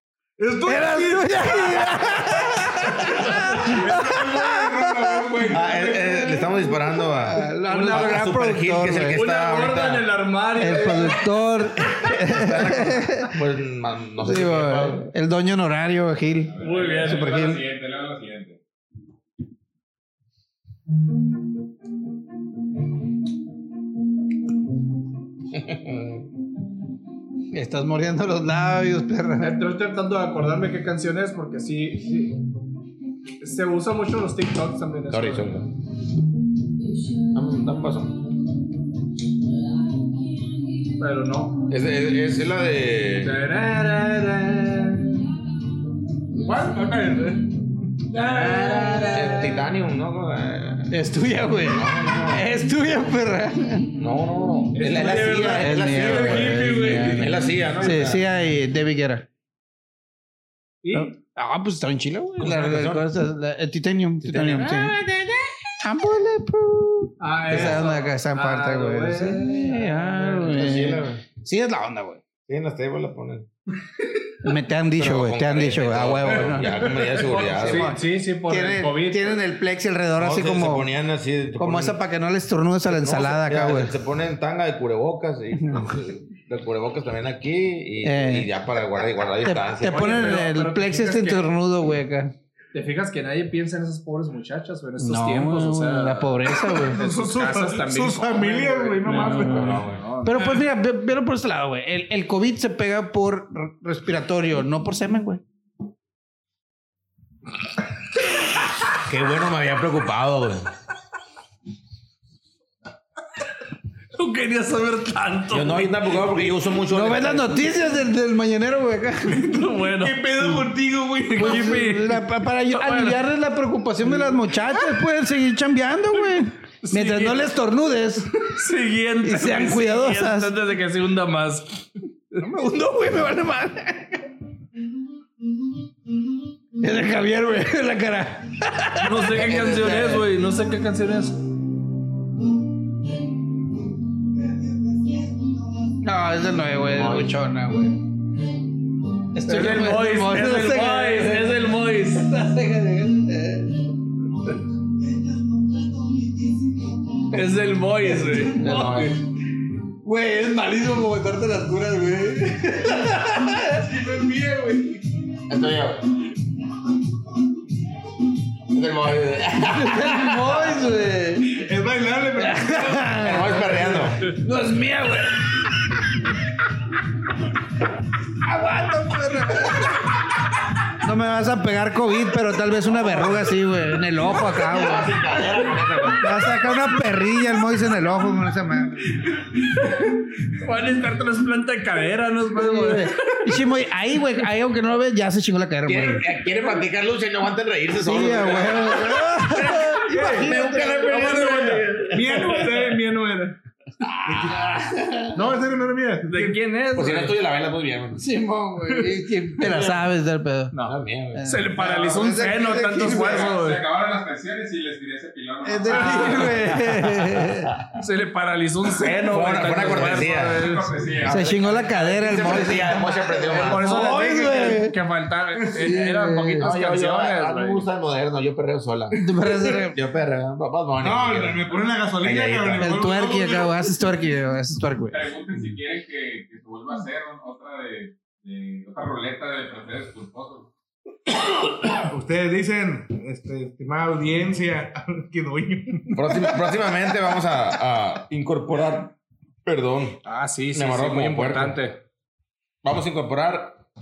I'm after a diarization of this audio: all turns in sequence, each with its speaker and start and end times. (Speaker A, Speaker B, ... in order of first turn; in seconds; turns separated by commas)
Speaker A: 0.4-6.4, Speaker B: 0.6-9.2, Speaker C: 5.5-10.1, Speaker D: 7.7-8.2, Speaker D: 9.1-11.3, Speaker B: 10.6-13.3, Speaker C: 12.1-15.1, Speaker B: 14.2-17.6, Speaker E: 16.4-18.6, Speaker D: 16.6-17.5, Speaker C: 25.5-26.2, Speaker B: 27.5-29.6, Speaker D: 29.4-32.4, Speaker D: 33.4-35.6, Speaker C: 35.1-35.7, Speaker C: 37.3-38.2, Speaker D: 41.0-41.6, Speaker C: 41.7-43.4, Speaker D: 43.2-45.3, Speaker A: 46.5-47.4, Speaker D: 46.5-47.2, Speaker D: 48.1-49.5, Speaker B: 48.3-49.6, Speaker C: 48.9-50.9, Speaker B: 50.9-53.9, Speaker C: 51.6-52.4, Speaker C: 54.0-58.2, Speaker D: 54.8-57.3, Speaker A: 54.9-55.4, Speaker B: 55.3-59.3, Speaker A: 56.3-56.6, Speaker D: 60.8-61.1, Speaker B: 60.9-65.0, Speaker C: 62.4-63.1, Speaker C: 64.2-65.5, Speaker B: 65.8-72.2, Speaker D: 67.2-70.9, Speaker C: 67.5-67.8, Speaker C: 70.5-71.2, Speaker C: 72.5-73.5, Speaker B: 74.4-80.9, Speaker C: 75.0-77.9, Speaker D: 77.2-79.4, Speaker C: 80.2-82.0, Speaker B: 81.6-83.9, Speaker C: 82.9-90.3, Speaker B: 85.6-86.0, Speaker B: 88.0-88.5, Speaker B: 89.4-92.3, Speaker D: 89.8-91.5, Speaker D: 92.7-100.6, Speaker B: 95.0-97.0, Speaker A: 96.9-99.8, Speaker B: 99.1-105.4, Speaker C: 99.4-100.0, Speaker C: 108.9-110.7, Speaker D: 114.1-116.0, Speaker C: 115.5-117.6, Speaker B: 116.9-119.6, Speaker D: 119.3-123.2, Speaker A: 120.0-121.8, Speaker B: 121.3-128.4, Speaker D: 126.8-127.4, Speaker D: 128.5-131.9, Speaker B: 129.2-130.5, Speaker B: 132.4-134.2, Speaker B: 136.8-140.2, Speaker D: 139.0-141.4, Speaker B: 146.0-148.0, Speaker C: 146.9-147.3, Speaker B: 149.3-153.8, Speaker D: 149.4-152.3, Speaker D: 157.3-159.2, Speaker C: 158.5-159.2, Speaker B: 160.0-164.0, Speaker A: 163.8-165.0, Speaker C: 165.5-166.0, Speaker C: 168.7-170.6, Speaker B: 169.6-171.7, Speaker A: 171.5-173.3, Speaker B: 172.3-175.7, Speaker C: 173.2-174.3, Speaker B: 178.4-180.1, Speaker B: 181.0-189.2, Speaker C: 184.5-186.3, Speaker D: 189.6-193.4, Speaker B: 192.5-196.3, Speaker C: 195.8-202.7, Speaker B: 198.0-201.9, Speaker A: 200.1-203.6, Speaker D: 200.1-200.5, Speaker C: 204.0-205.3, Speaker A: 204.2-204.7, Speaker A: 205.3-206.6, Speaker D: 206.3-207.3, Speaker C: 206.9-208.2, Speaker B: 208.2-210.7, Speaker D: 210.7-213.8, Speaker C: 210.8-211.7, Speaker B: 211.3-213.5, Speaker E: 212.9-216.8, Speaker B: 215.6-217.7, Speaker D: 215.9-216.6, Speaker C: 217.0-217.8, Speaker D: 217.9-221.0, Speaker C: 219.2-220.7, Speaker E: 220.1-222.0, Speaker C: 221.2-224.0, Speaker B: 221.2-224.9, Speaker D: 223.5-227.8, Speaker B: 225.7-226.7, Speaker C: 226.6-233.0, Speaker B: 229.2-230.0, Speaker A: 231.0-233.8, Speaker B: 232.8-235.2, Speaker E: 235.1-240.7, Speaker A: 241.9-246.4, Speaker C: 246.1-250.2, Speaker D: 250.2-252.0, Speaker C: 250.7-251.8, Speaker C: 252.8-253.8